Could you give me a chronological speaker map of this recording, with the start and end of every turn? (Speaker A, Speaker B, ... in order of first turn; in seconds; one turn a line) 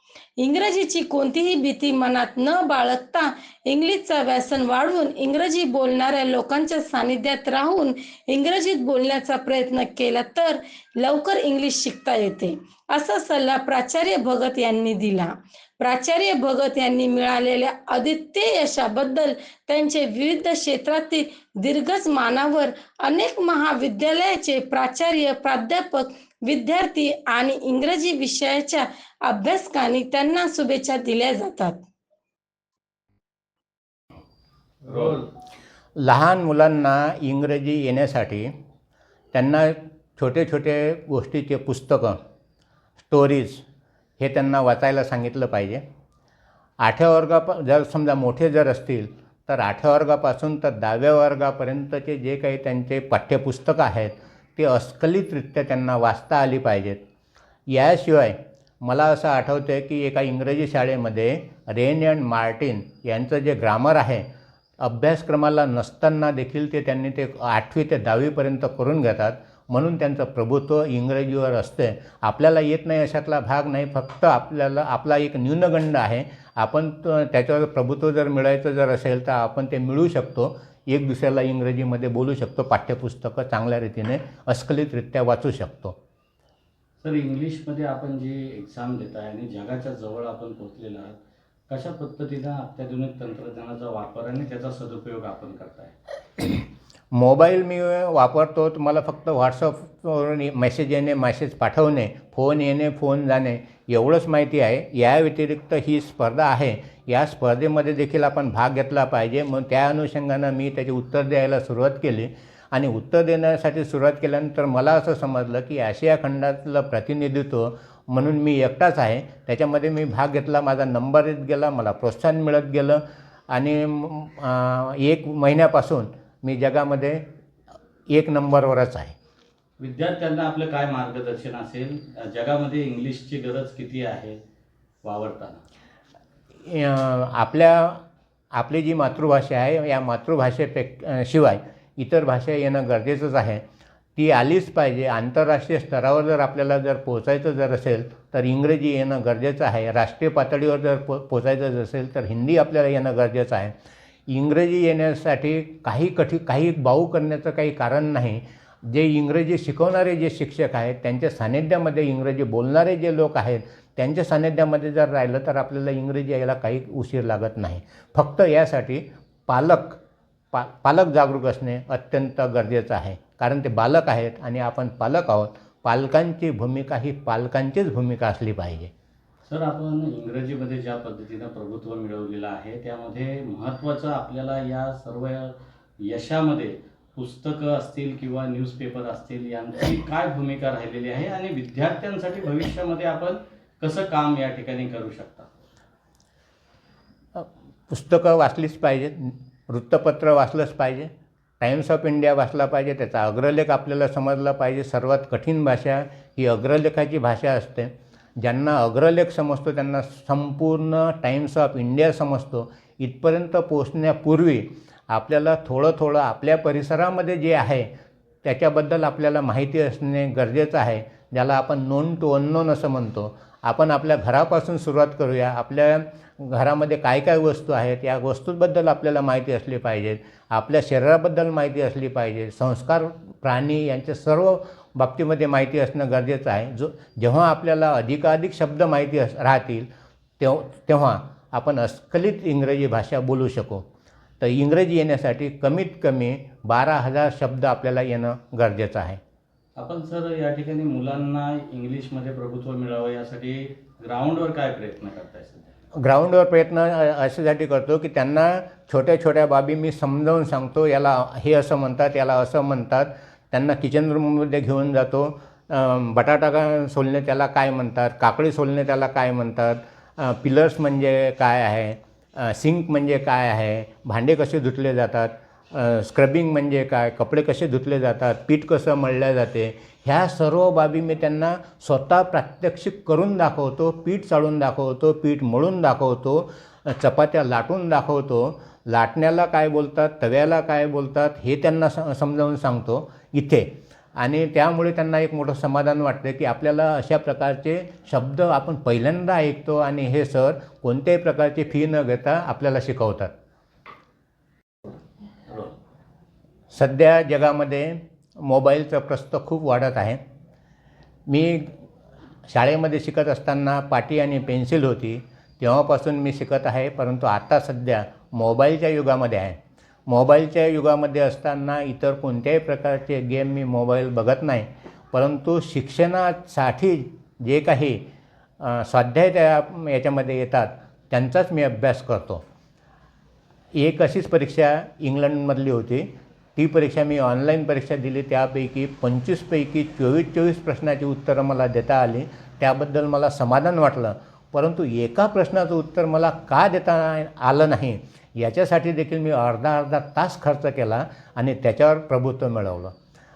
Speaker A: 0.4-31.8
Speaker B: 34.9-35.2
Speaker C: 36.0-38.5
Speaker C: 39.3-42.2
Speaker C: 43.0-43.6
Speaker C: 44.2-45.8
Speaker C: 46.8-57.0
Speaker C: 57.7-64.3
Speaker C: 64.8-86.0
Speaker B: 87.0-91.2
Speaker B: 91.7-95.9
Speaker C: 97.1-127.2
Speaker C: 128.1-129.1
Speaker B: 129.8-134.4
Speaker B: 135.0-135.6
Speaker C: 136.6-138.0
Speaker C: 138.5-143.6
Speaker C: 144.2-153.7
Speaker C: 154.3-170.0
Speaker C: 170.5-178.9
Speaker B: 179.5-185.5
Speaker B: 186.0-195.5
Speaker C: 197.3-217.9
Speaker C: 218.4-239.9
Speaker C: 240.4-243.8
Speaker C: 244.4-249.2
Speaker B: 249.8-255.7
Speaker C: 255.9-303.3
Speaker B: 305.5-305.7
Speaker C: 306.7-310.2
Speaker C: 311.3-311.7
Speaker C: 312.5-328.0
Speaker C: 328.6-332.4
Speaker C: 333.7-352.9